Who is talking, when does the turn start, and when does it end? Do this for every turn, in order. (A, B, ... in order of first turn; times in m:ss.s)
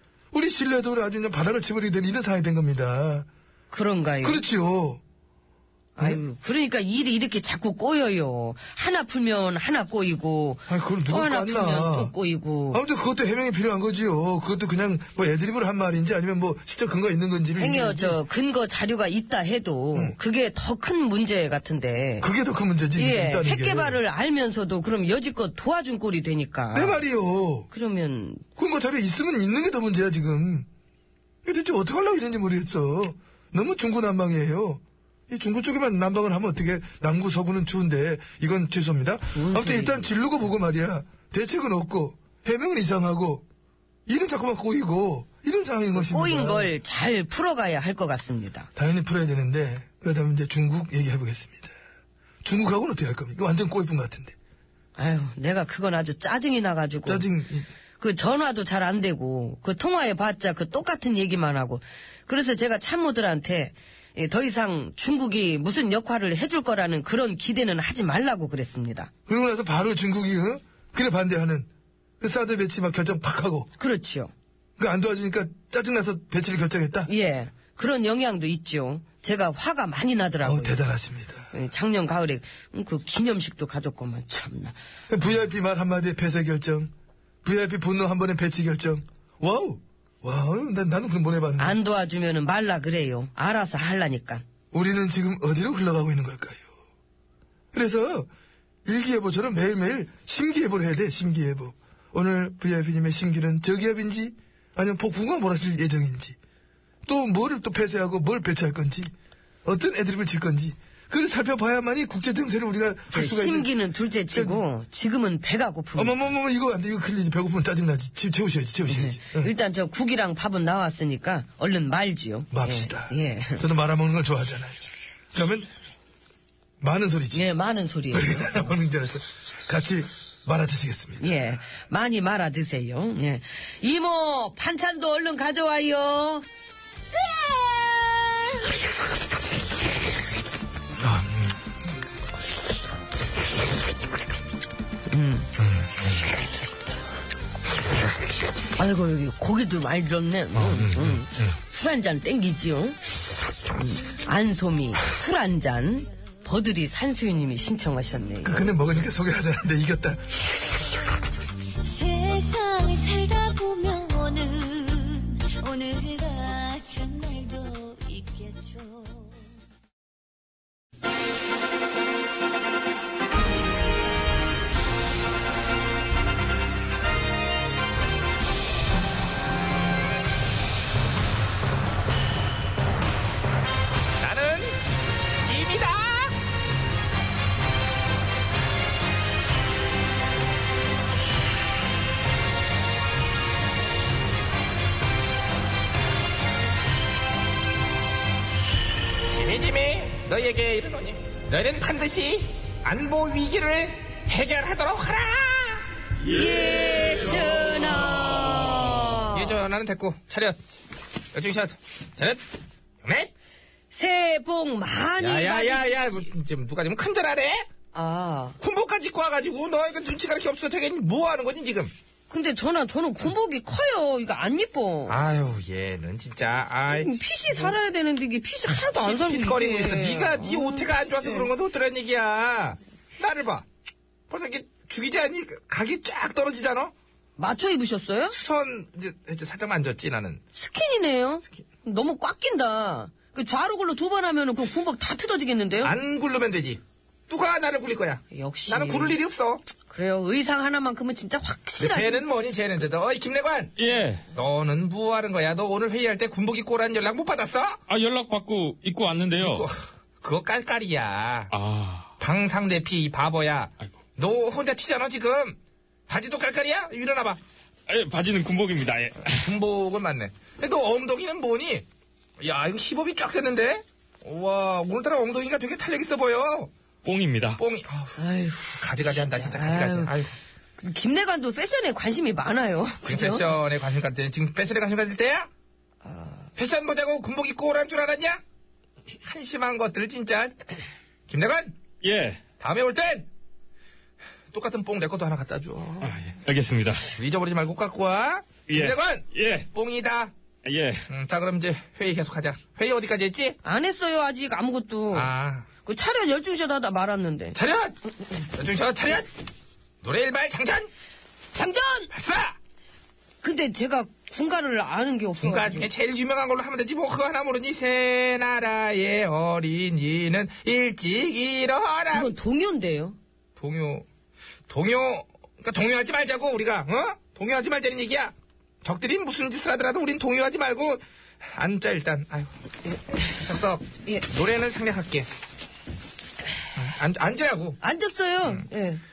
0:00.3-0:03.3 A
0:03.7-0:04.4 B
0:04.2-0:05.0 A
0:06.0-0:12.8 B
0:10.7-0:12.1 A
0:12.7-0:18.2 A
0:17.6-0:22.3 B
0:22.2-0:24.0 A
0:22.9-0:27.0 B
0:26.7-0:27.7 A
0:27.7-0:28.4 B
0:28.6-0:30.7 A
0:31.4-0:43.4 A
0:39.3-0:40.0 B
0:44.1-0:46.7 A
0:45.9-0:48.7 B
0:48.8-0:51.7 A
0:52.4-0:54.3 A
0:55.0-0:57.3 B
0:57.0-0:57.7 A
0:58.0-1:09.1 B
1:09.3-1:11.7 A
1:12.2-1:13.7 A
1:13.8-1:14.3 B
1:14.8-1:17.1 A
1:17.1-1:20.9 B
1:20.4-1:21.5 A
1:21.5-1:24.7 B
1:25.1-1:26.9 A
1:27.4-1:31.8 A
1:31.6-1:34.4 B
1:34.7-1:36.7 A
1:37.7-1:38.3 A
1:38.8-1:46.4 A
1:47.0-1:49.1 A
1:49.6-1:53.7 A
1:53.1-1:56.3 B
1:54.3-1:54.6 A
1:56.0-1:59.5 A
1:58.9-2:03.6 B
2:02.5-2:04.8 A
2:05.3-2:05.7 A
2:06.8-2:07.5 A
2:07.3-2:08.7 B
2:08.1-2:11.5 A
2:11.2-2:16.4 B
2:17.3-2:17.8 B
2:21.0-2:21.5 A
2:25.1-2:25.5 B
2:28.8-2:33.0 B
2:33.7-2:38.8 B
2:38.4-2:40.4 A
2:41.8-2:49.5 C
3:04.2-3:04.8 D
3:05.4-3:06.4 D
3:19.3-3:25.8 D
3:26.2-3:29.6 B
3:29.3-3:30.6 D
3:31.3-3:32.4 D
3:33.0-3:33.3 D
3:33.9-3:36.3 B
3:35.2-3:37.7 D
3:37.9-3:38.6 B
3:38.6-3:41.9 D
3:42.3-3:45.2 B
3:45.1-3:47.8 D
3:46.9-3:51.5 B
3:48.7-3:53.6 D
3:54.3-3:56.9 D
3:57.4-3:58.4 B
3:58.3-4:00.4 D
4:00.5-4:05.9 B
4:05.8-4:09.6 D
4:08.3-4:09.2 B
4:09.9-4:12.2 B
4:11.8-4:13.7 D
4:13.8-4:14.2 E
4:14.3-4:17.8 D
4:17.9-4:19.7 E
4:19.4-4:21.5 D
4:21.5-4:22.1 E
4:22.2-4:25.6 D
4:26.1-4:27.4 D
4:27.9-4:29.4 E
4:29.3-4:31.8 D
4:32.4-4:36.7 D
4:37.0-4:37.6 E
4:37.6-4:38.2 D
4:38.2-4:40.1 B
4:38.8-4:40.3 D
4:40.8-4:43.5 B
4:43.0-4:45.5 D
4:46.0-4:46.4 B
4:46.6-4:48.4 D
4:49.2-4:50.6 D
4:51.3-4:51.7 D
4:52.0-4:52.4 E
4:52.6-4:53.3 D
4:54.5-4:56.1 D
4:56.0-4:57.1 E
4:57.0-5:00.3 D
4:58.7-4:59.7 E
5:00.6-5:01.0 E
5:01.1-5:03.6 D
5:03.6-5:05.3 B
5:05.1-5:05.6 D
5:05.8-5:07.6 B
5:07.5-5:08.0 D
5:08.5-5:09.3 D
5:10.0-5:10.9 D
5:11.5-5:12.1 B
5:12.1-5:12.6 D
5:13.4-5:15.9 B
5:15.4-5:22.3 D
5:22.1-5:23.2 B
5:23.6-5:24.0 D
5:24.7-5:31.0 D
5:31.5-5:32.5 D
5:33.1-5:35.3 D
5:36.8-5:37.8 D
5:37.8-5:39.0 B